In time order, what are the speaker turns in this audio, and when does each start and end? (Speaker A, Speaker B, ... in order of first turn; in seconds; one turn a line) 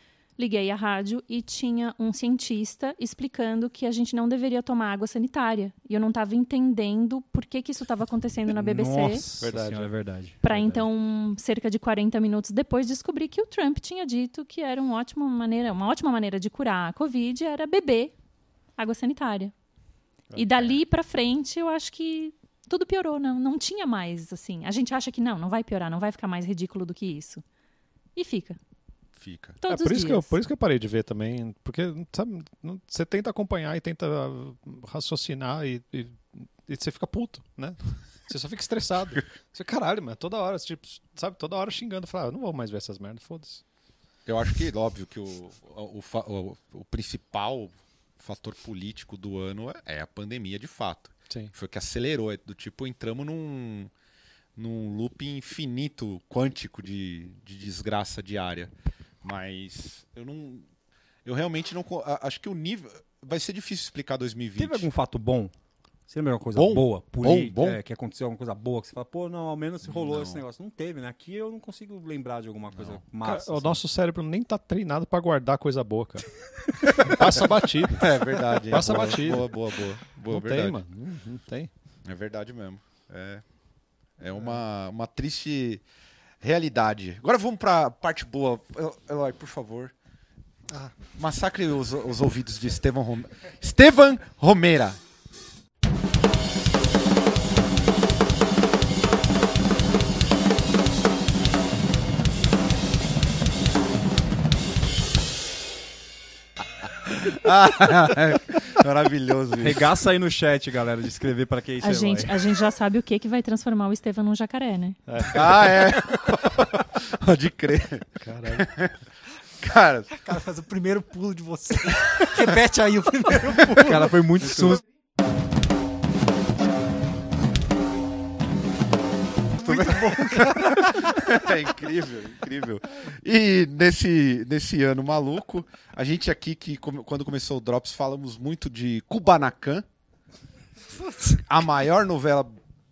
Speaker A: 0.4-9.3
Speaker B: 8.5-10.8
Speaker C: 9.4-9.9
Speaker A: 10.4-18.1
Speaker A: 18.8-19.5
Speaker A: 20.3-27.4
Speaker A: 28.1-28.6
Speaker D: 29.1-29.6
Speaker A: 29.6-30.4
Speaker C: 29.6-43.6
Speaker D: 44.2-53.9
Speaker D: 54.5-60.6
Speaker D: 61.2-64.9
Speaker B: 64.6-65.5
Speaker B: 66.1-73.8
Speaker D: 66.5-67.8
Speaker D: 69.8-70.4
Speaker D: 72.7-73.0
Speaker C: 73.2-76.3
Speaker C: 76.8-79.5
Speaker D: 77.0-80.8
Speaker C: 80.3-81.7
Speaker D: 82.0-83.4
Speaker D: 84.2-85.8
Speaker D: 86.4-89.9
Speaker D: 91.2-95.0
Speaker D: 107.0-109.9
Speaker B: 109.6-112.5
Speaker A: 111.8-115.0
Speaker C: 115.1-115.6
Speaker D: 115.3-119.0
Speaker C: 118.2-118.7
Speaker D: 119.6-120.1
Speaker E: 120.1-124.1
Speaker B: 123.7-124.8
Speaker E: 129.6-131.2
Speaker D: 129.6-139.8
Speaker E: 141.0-141.4
Speaker D: 141.4-142.6